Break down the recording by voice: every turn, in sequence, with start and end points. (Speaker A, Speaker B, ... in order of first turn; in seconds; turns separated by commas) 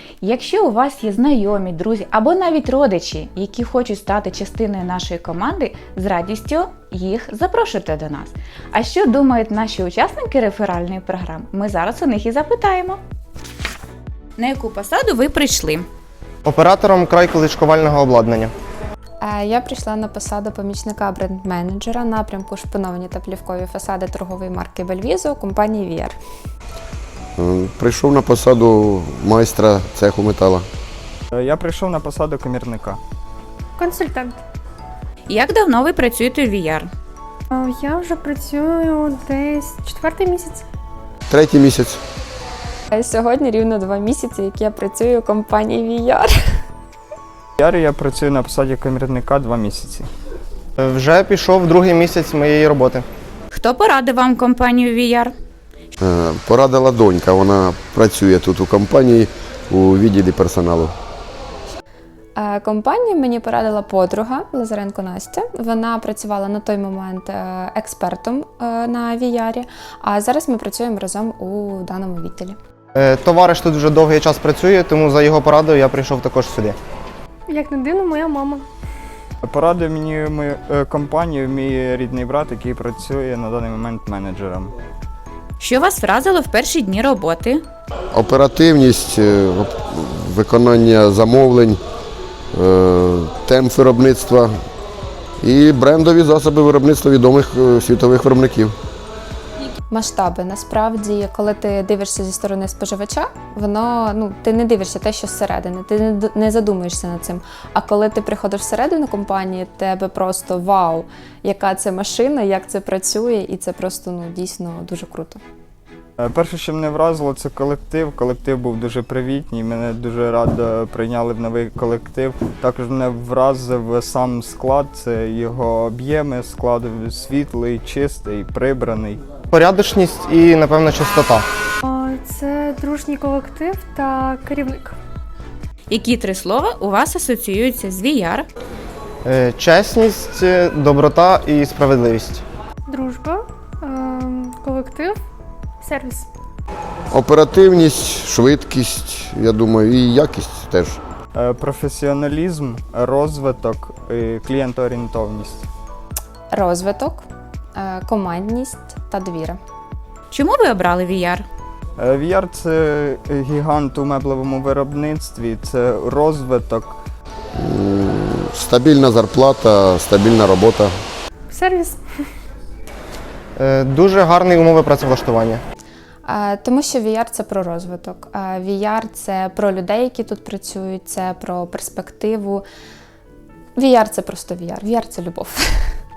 Speaker A: 0.2-13.0, Speaker A: 14.4-15.9, Speaker B: 16.4-18.5, Speaker C: 19.2-26.1, Speaker D: 27.4-30.6, Speaker E: 31.3-33.0, Speaker F: 33.8-34.4, Speaker A: 35.3-36.9, Speaker F: 37.5-40.6, Speaker D: 41.3-42.0, Speaker C: 42.9-46.3, Speaker E: 47.6-50.1, Speaker B: 50.8-53.0, Speaker A: 53.5-55.3, Speaker D: 56.0-60.9, Speaker C: 62.4-72.5, Speaker B: 72.9-76.8, Speaker F: 77.5-78.6, Speaker E: 79.4-84.7, Speaker A: 85.6-87.6, Speaker D: 88.1-91.8, Speaker D: 92.5-94.5, Speaker D: 95.4-98.7, Speaker C: 99.9-115.4, Speaker E: 116.2-129.2, Speaker B: 129.5-131.4, Speaker F: 131.8-134.9, Speaker A: 135.9-138.4, Speaker B: 139.2-142.4, Speaker F: 142.9-145.2, Speaker F: 145.8-146.3, Speaker D: 147.1-151.0, Speaker E: 151.3-155.7, Speaker C: 156.5-157.2, Speaker C: 157.8-159.6, Speaker A: 160.3-161.4, Speaker E: 162.0-167.0, Speaker D: 167.5-170.9, Speaker F: 171.5-172.0, Speaker B: 173.6-175.6, Speaker C: 176.2-182.6, Speaker C: 183.8-185.9